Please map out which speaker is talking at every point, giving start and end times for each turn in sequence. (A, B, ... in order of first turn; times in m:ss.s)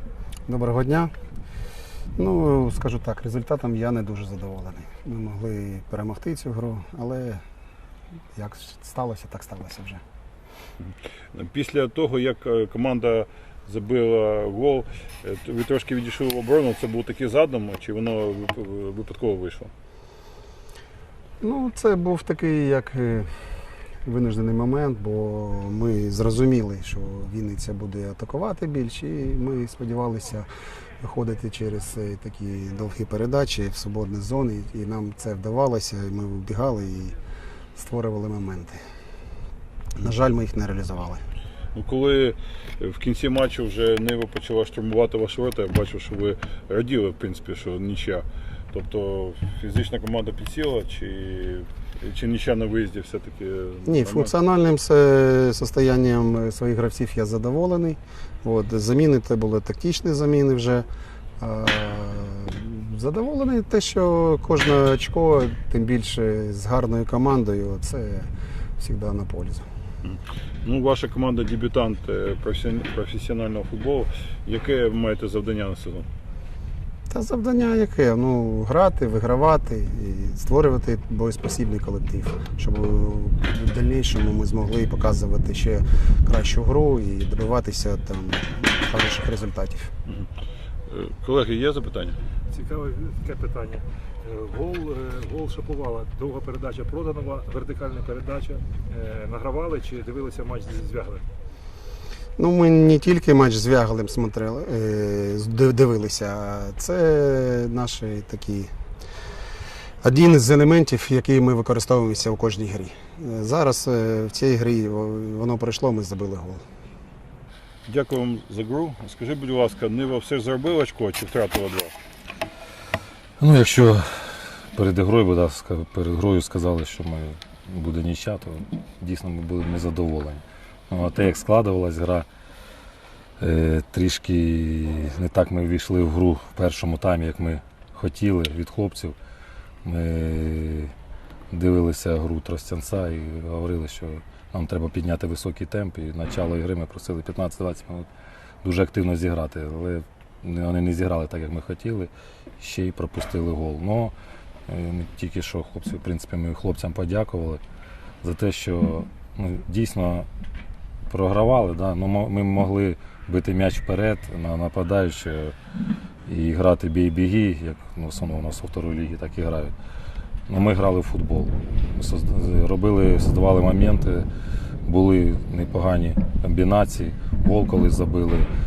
0:00.4-0:01.1 A
0:02.2-0:07.4 A
0:08.3-0:10.0 A
0:11.3-0:19.7 B
0:21.4-0:23.3 A
0:24.0-0:30.5 A
0:31.0-0:37.2 A
0:37.7-0:38.8 A
0:40.0-0:41.2 A
0:41.7-0:54.3 B
0:53.8-1:00.8 A
1:01.4-1:09.6 A
1:10.0-1:16.1 B
1:17.1-1:29.9 A
1:30.9-1:32.2 B
1:32.5-1:41.2 C
1:42.4-1:48.7 A
1:50.0-1:56.6 A
1:57.8-2:01.9 B
2:03.4-2:12.2 D
2:13.4-2:19.2 D
2:19.8-2:20.9 D
2:21.5-2:28.1 D
2:28.6-2:34.1 D
2:34.7-2:37.6 D
2:38.2-2:40.3 D
2:41.1-2:45.5 D
2:46.2-2:49.7 D
2:50.5-2:54.2 D
2:54.8-2:58.5 D